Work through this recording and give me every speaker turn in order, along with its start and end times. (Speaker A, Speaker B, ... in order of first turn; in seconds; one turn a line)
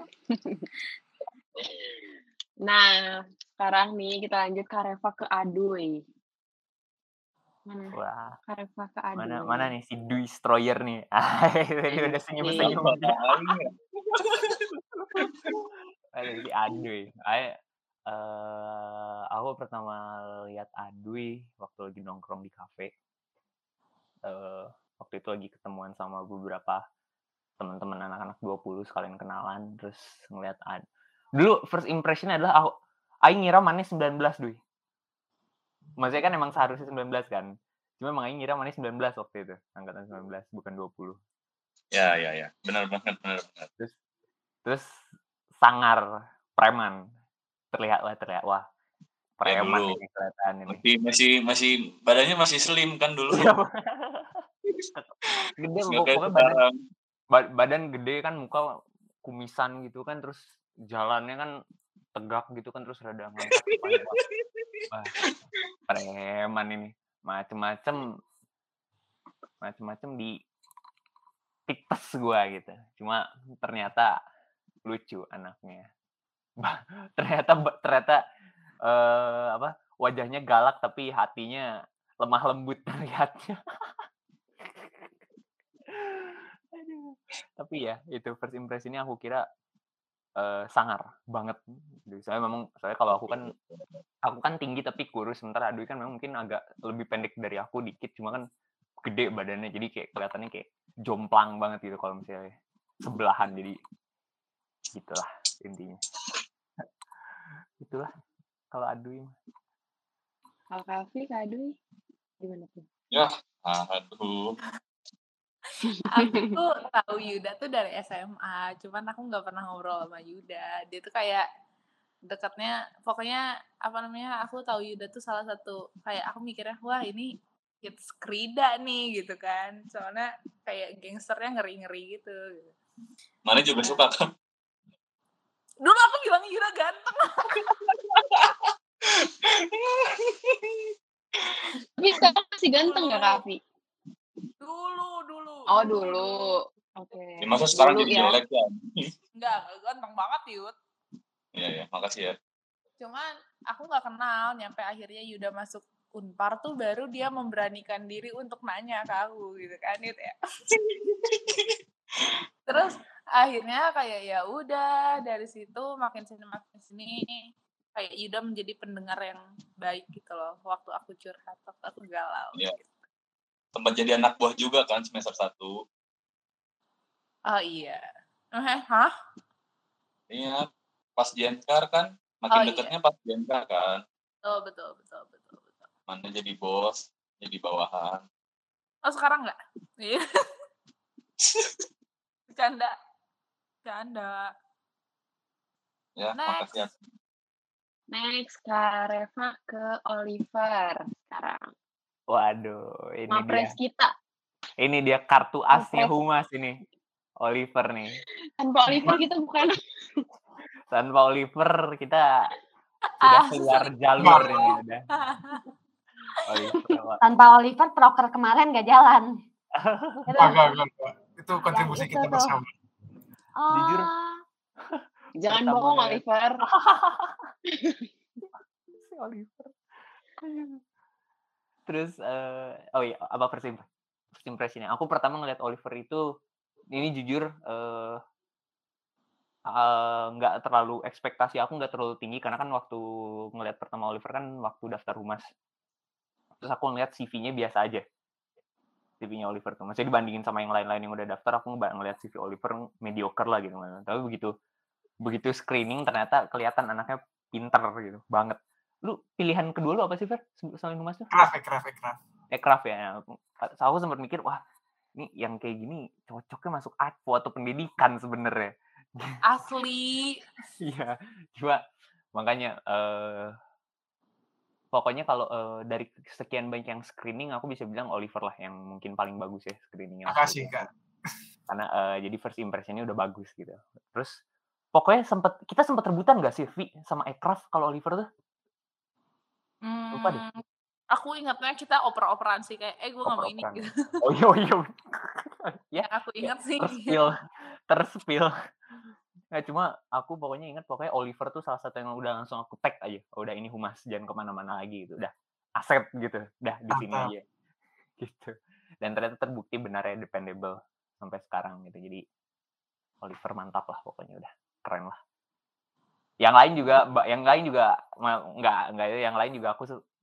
Speaker A: 0.3-0.7
Speaker A: 2.6-6.0
Speaker A: 7.7-9.7
Speaker B: 7.9-8.4
Speaker B: 9.2-13.5
Speaker A: 11.9-12.8
Speaker C: 12.5-13.7
Speaker B: 16.1-17.6
Speaker B: 18.1-22.9
Speaker B: 24.3-26.8
Speaker B: 27.6-30.8
Speaker B: 31.4-32.7
Speaker B: 33.2-34.6
Speaker B: 36.0-41.2
Speaker C: 41.9-43.7
Speaker B: 44.6-45.0
Speaker B: 45.6-47.0
Speaker B: 47.7-48.6
Speaker B: 49.4-50.8
Speaker C: 49.5-50.0
Speaker C: 50.7-53.5
Speaker B: 53.3-54.4
Speaker B: 54.9-56.6
Speaker C: 55.9-56.8
Speaker B: 57.3-58.7
Speaker B: 59.2-61.5
Speaker B: 62.1-64.2
Speaker C: 63.7-64.0
Speaker B: 65.9-68.2
Speaker B: 69.6-70.4
Speaker B: 71.7-74.1
Speaker B: 74.8-75.9
Speaker B: 76.6-78.2
Speaker B: 78.8-81.7
Speaker B: 82.2-83.6
Speaker B: 85.9-89.4
Speaker B: 90.4-93.5
Speaker B: 94.2-98.4
Speaker B: 99.0-103.8
Speaker B: 104.9-106.0
Speaker B: 107.8-108.1
Speaker B: 108.7-109.3
Speaker A: 110.7-111.8
Speaker A: 112.4-112.9
Speaker C: 113.1-114.6
Speaker A: 115.9-116.6
Speaker D: 116.1-121.5
Speaker D: 122.3-132.7
Speaker C: 133.5-134.2
Speaker D: 135.8-137.6
Speaker A: 142.0-143.6
Speaker D: 142.8-143.4
Speaker D: 144.6-146.3
Speaker A: 145.7-148.4
Speaker C: 147.4-149.1
Speaker D: 149.4-150.8
Speaker C: 151.6-152.3
Speaker D: 153.0-160.3
Speaker C: 160.9-161.7
Speaker D: 162.7-167.4
Speaker D: 168.0-172.8
Speaker C: 173.8-175.8
Speaker D: 177.5-178.0
Speaker D: 178.6-179.1
Speaker C: 180.3-180.7
Speaker C: 181.2-184.0
Speaker D: 182.5-182.9
Speaker D: 184.4-185.8
Speaker C: 186.1-188.2
Speaker D: 189.1-190.2
Speaker D: 192.5-192.9
Speaker D: 193.8-194.5
Speaker C: 196.2-196.9
Speaker D: 196.4-196.9
Speaker A: 198.1-201.6
Speaker B: 202.3-203.7
Speaker A: 203.3-204.1
Speaker B: 204.8-206.8
Speaker A: 205.7-206.2
Speaker B: 207.4-208.2
Speaker A: 208.6-210.2
Speaker B: 210.9-212.2
Speaker D: 213.2-214.7
Speaker B: 213.2-215.1
Speaker E: 214.2-214.7
Speaker D: 215.2-215.6
Speaker B: 216.5-217.2
Speaker F: 217.2-219.3
Speaker B: 219.8-220.2
Speaker F: 220.3-220.8
Speaker E: 220.4-222.7
Speaker F: 221.7-222.6
Speaker F: 223.6-224.4
Speaker B: 223.8-224.1
Speaker B: 224.9-227.5
Speaker A: 225.4-226.6
Speaker A: 227.7-228.1
Speaker B: 229.0-229.7
Speaker B: 230.4-230.8
Speaker B: 231.9-236.2
Speaker B: 236.9-238.2
Speaker B: 239.7-245.5
Speaker B: 246.6-248.0
Speaker B: 249.2-254.5
Speaker B: 255.2-261.5
Speaker E: 261.3-262.2
Speaker B: 262.5-264.6
Speaker B: 265.2-269.4
Speaker D: 269.4-270.4
Speaker B: 270.8-271.8
Speaker B: 272.4-273.6
Speaker B: 274.9-280.9
Speaker E: 280.3-280.9
Speaker B: 281.7-284.4
Speaker B: 284.9-288.3
Speaker D: 289.9-290.6
Speaker B: 290.1-290.4
Speaker D: 291.1-294.0
Speaker B: 293.2-297.4
Speaker D: 296.0-297.1
Speaker B: 297.9-298.5
Speaker B: 299.5-307.4
Speaker E: 306.9-307.3
Speaker B: 308.2-312.2
Speaker B: 313.2-315.2
Speaker B: 316.4-320.0